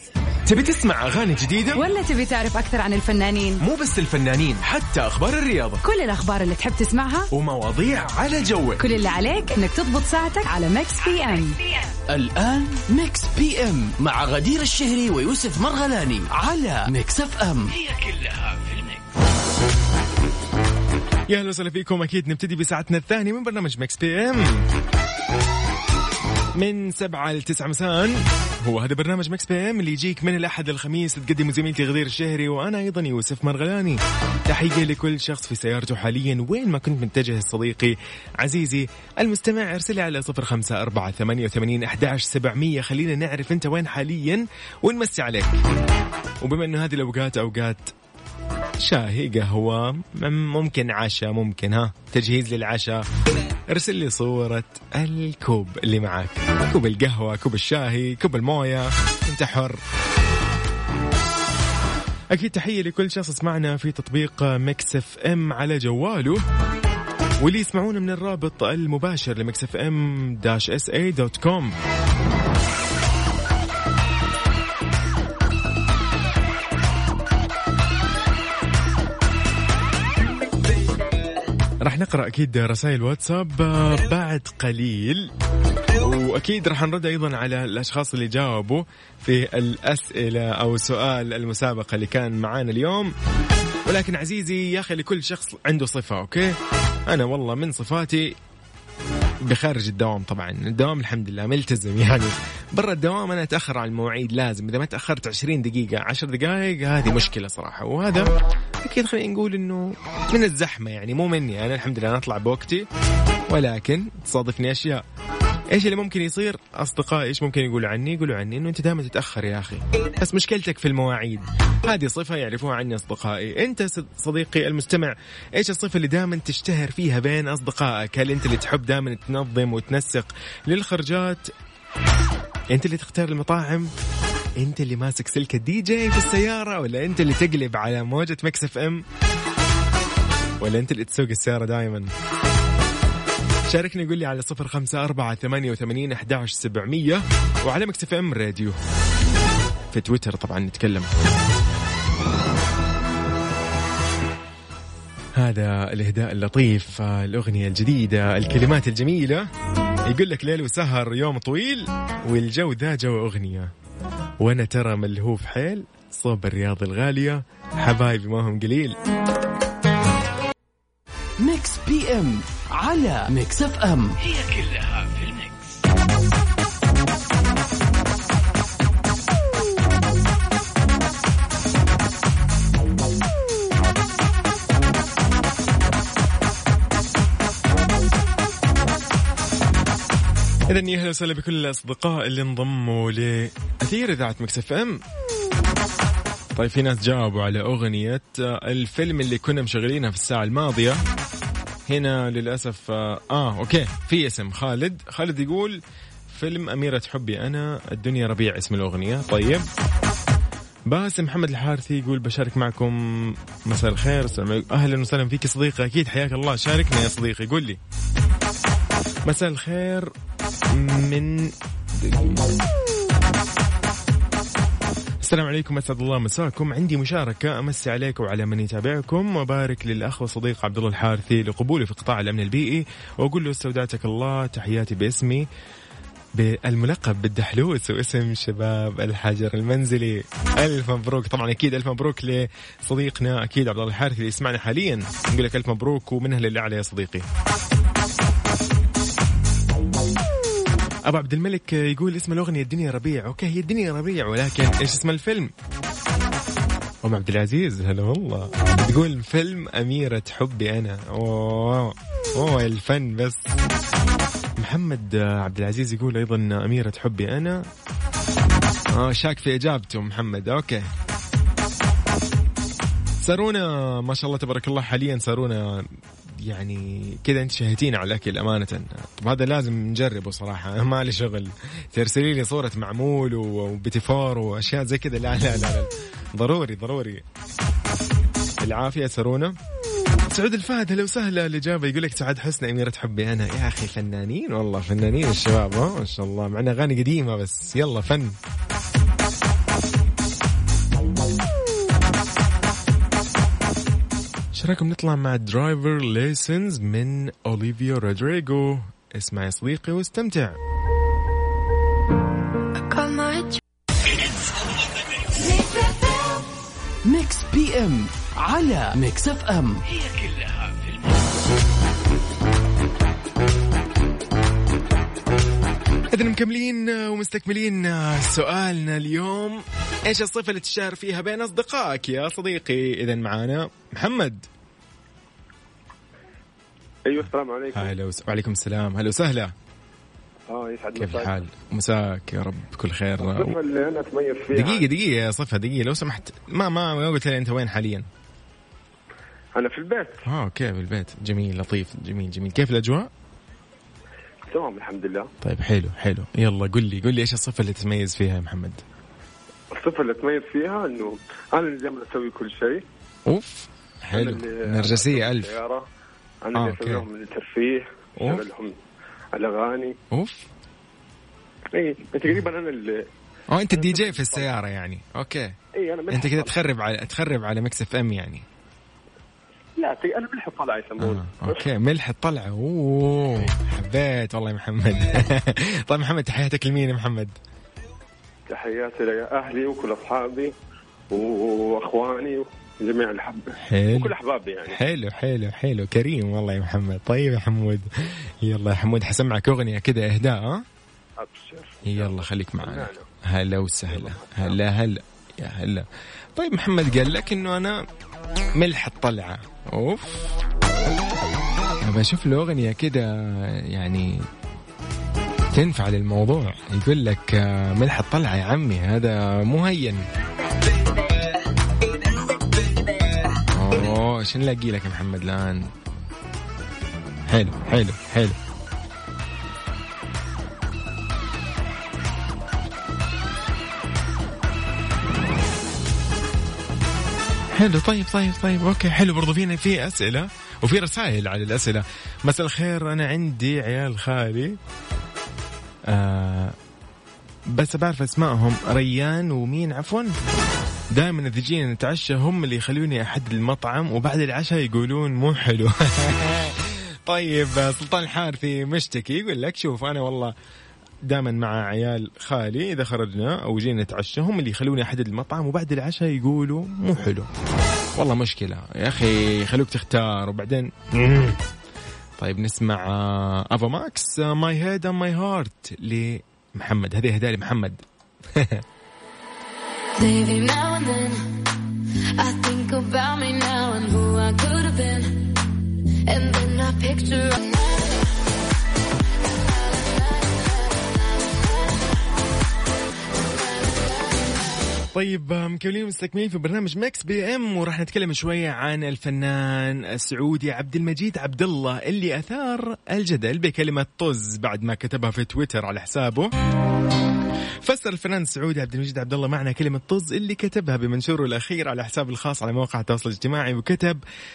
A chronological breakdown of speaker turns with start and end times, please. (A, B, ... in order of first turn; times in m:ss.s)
0:00.5-0:01.8 A
0:01.7-0:03.6 B
0:03.6-0:05.8 A
0:05.8-0:07.3 B
0:07.3-0:08.8 A
0:08.8-0:11.6 B
0:12.1-0:17.8 C
0:21.3-0:24.6 A
0:26.6-0:45.6 A
0:46.4-0:47.9 A
0:48.8-0:53.0 A
0:53.7-0:59.8 A
1:02.3-1:06.4 A
1:07.4-1:11.7 A
1:21.8-1:25.3 A
1:26.0-1:33.1 A
1:33.9-1:36.6 A
1:37.1-1:38.4 A
1:39.4-1:48.3 A
1:48.8-1:52.9 A
1:53.5-1:55.0 A
1:55.7-2:11.5 A
2:12.7-2:13.9 A
2:14.6-2:19.0 A
2:20.6-2:22.1 A
2:23.7-2:28.8 A
2:29.9-2:31.1 A
2:35.4-2:39.5 A
2:40.1-2:43.7 A
2:44.4-2:49.0 A
2:51.4-2:54.2 C
3:10.7-3:15.0 A
3:16.6-3:21.0 A
3:21.9-3:29.7 A
3:30.9-3:37.8 A
3:39.3-3:40.1 A
3:40.7-3:42.4 A
3:45.2-3:55.5 A
3:56.4-4:07.3 A
4:11.1-4:15.5 A
4:17.0-4:23.5 A
4:24.6-4:27.7 A
4:28.9-4:30.9 A
4:33.2-4:35.8 A
4:36.5-4:47.2 A
4:48.6-4:49.6 A
4:50.3-4:58.4 A
5:04.6-5:10.6 A
5:12.8-5:13.6 D
5:15.5-5:15.8 D
5:17.0-5:19.8 C
5:26.1-5:34.4 A
5:37.1-5:37.9 E
5:37.7-5:39.5 A
5:40.5-5:41.4 E
5:41.0-5:43.6 A
5:43.2-5:44.9 E
5:44.5-5:48.1 A
5:49.6-5:50.2 E
5:50.2-5:53.1 A
5:54.5-5:55.3 E
5:55.4-5:58.8 A
5:59.7-6:02.8 E
6:03.3-6:05.6 A
6:04.1-6:05.9 E
6:06.4-6:08.8 E
6:06.6-6:07.1 A
6:08.2-6:08.5 A
6:09.3-6:10.0 E
6:10.1-6:10.5 A
6:11.7-6:13.0 E
6:13.5-6:15.5 A
6:13.7-6:14.5 E
6:15.8-6:16.6 E
6:16.1-6:18.4 A
6:19.8-6:21.7 E
6:21.0-6:27.4 A
6:28.5-6:30.5 E
6:31.1-6:34.8 E
6:33.6-6:34.2 A
6:34.7-6:40.6 A
6:41.2-6:43.1 E
6:41.8-6:47.8 A
6:43.9-6:44.6 E
6:48.6-6:50.4 A
6:51.8-6:54.2 A
6:55.5-7:00.0 A
7:03.5-7:05.7 A
7:07.3-7:08.4 A
7:17.6-7:24.6 A
7:25.9-7:26.6 A
7:27.5-7:30.1 A
7:30.9-7:40.3 A
7:41.0-7:47.3 A
7:48.0-7:51.4 A
7:52.2-7:57.8 A
7:58.4-7:58.6 A
8:00.0-8:01.2 D
8:02.2-8:05.2 D
8:06.1-8:07.4 D
8:14.9-8:26.3 A
8:27.6-8:34.0 A